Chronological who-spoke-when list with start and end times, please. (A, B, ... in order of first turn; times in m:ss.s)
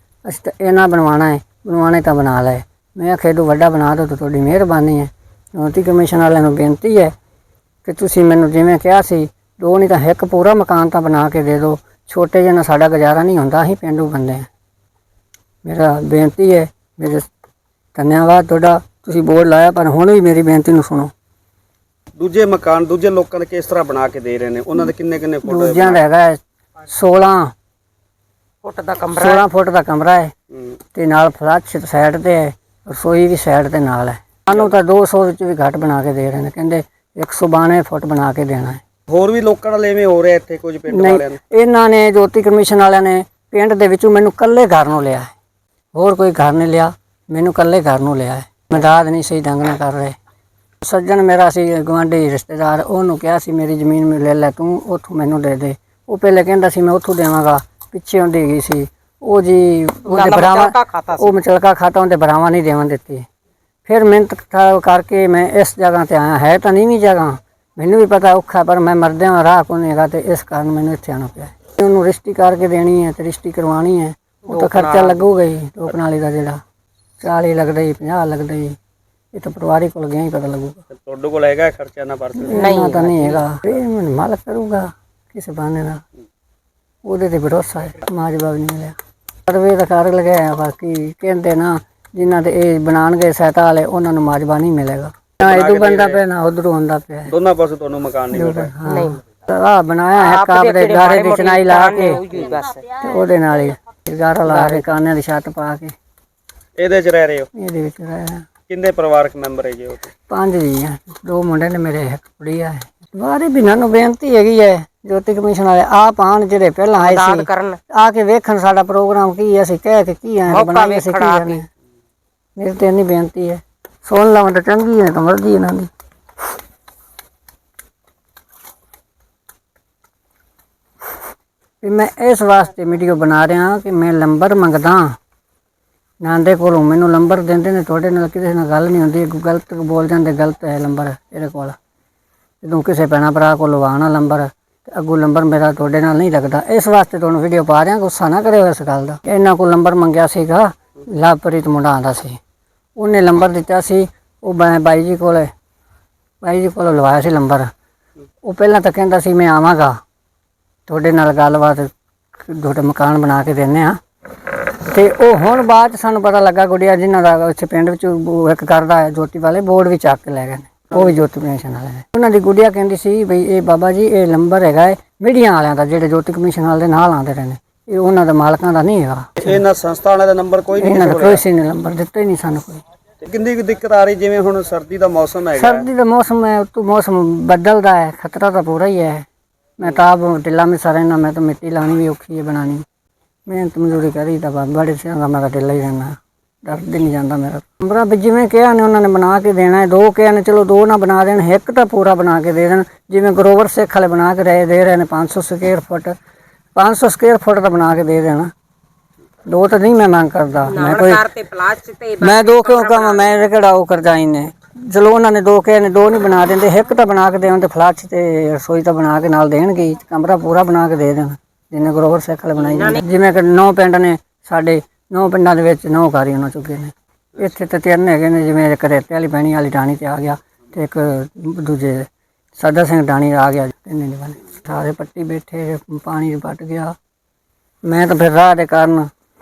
0:00.2-0:07.1 A
0:07.8-0:14.5 A
0:15.6-0:17.3 A
0:17.9-0:21.1 A
0:22.2-0:26.0 B
0:25.4-0:27.5 A
0:28.6-0:29.5 C
0:29.1-0:30.3 A
0:30.9-0:38.8 A
0:39.1-0:41.4 B
0:40.9-0:45.3 A
0:45.9-0:50.2 A
0:50.8-1:03.2 A
1:00.0-1:01.3 C
1:03.8-1:16.6 A
1:14.4-1:15.2 C
1:17.2-1:18.8 A
1:19.3-1:20.8 A
1:20.9-1:22.6 B
1:22.5-1:26.0 A
1:22.5-1:23.4 C
1:27.0-1:37.3 A
1:35.4-1:36.2 B
1:37.3-1:38.7 B
1:38.3-1:42.2 A
1:38.8-1:39.2 C
1:40.2-1:42.8 C
1:42.9-1:45.9 A
1:46.8-1:47.5 B
1:47.5-1:48.5 A
1:48.7-1:50.1 B
1:50.3-2:01.6 A
1:57.0-1:57.8 C
2:00.5-2:01.6 C
2:02.6-2:05.9 A
2:11.8-2:15.2 A
2:16.2-2:21.8 A
2:22.6-2:32.4 A
2:33.0-2:35.5 A
2:36.4-2:37.7 A
2:38.4-2:40.0 A
2:40.9-2:59.6 A
2:59.4-3:01.4 B
3:00.8-3:02.8 A
3:03.2-3:05.9 B
3:05.6-3:09.2 A
3:09.8-3:12.8 A
3:13.5-3:26.2 A
3:26.8-3:28.5 A
3:29.5-3:31.3 A
3:30.7-3:33.3 C
3:32.2-3:57.0 A
3:42.6-3:43.0 C
3:57.8-3:59.1 A